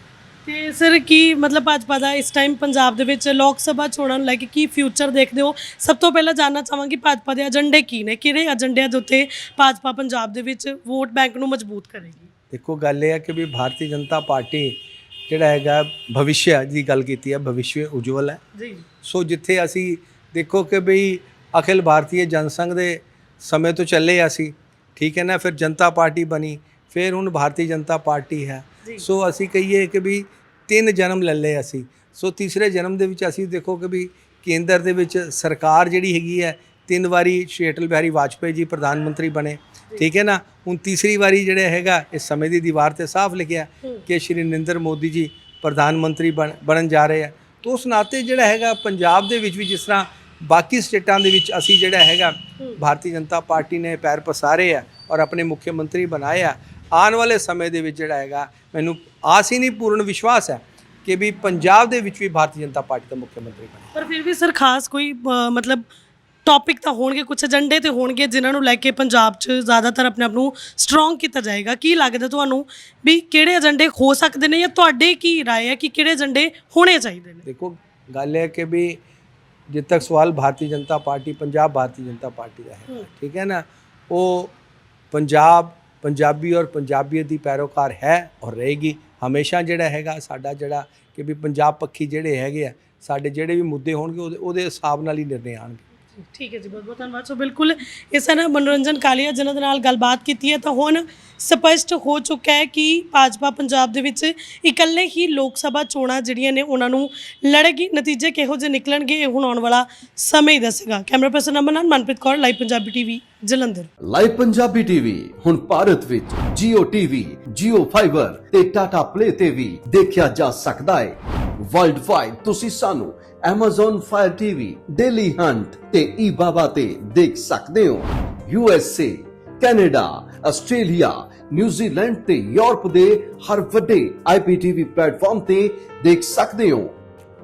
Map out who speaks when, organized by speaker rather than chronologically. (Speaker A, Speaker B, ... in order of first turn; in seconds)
Speaker A: 0.4-12.3, 18.6-18.8, 63.9-65.8, 66.4-77.4, 96.2-113.9
Speaker B: 12.5-18.4, 19.0-63.9, 77.4-79.0, 79.7-84.5, 85.1-95.8
Speaker C: 114.0-136.9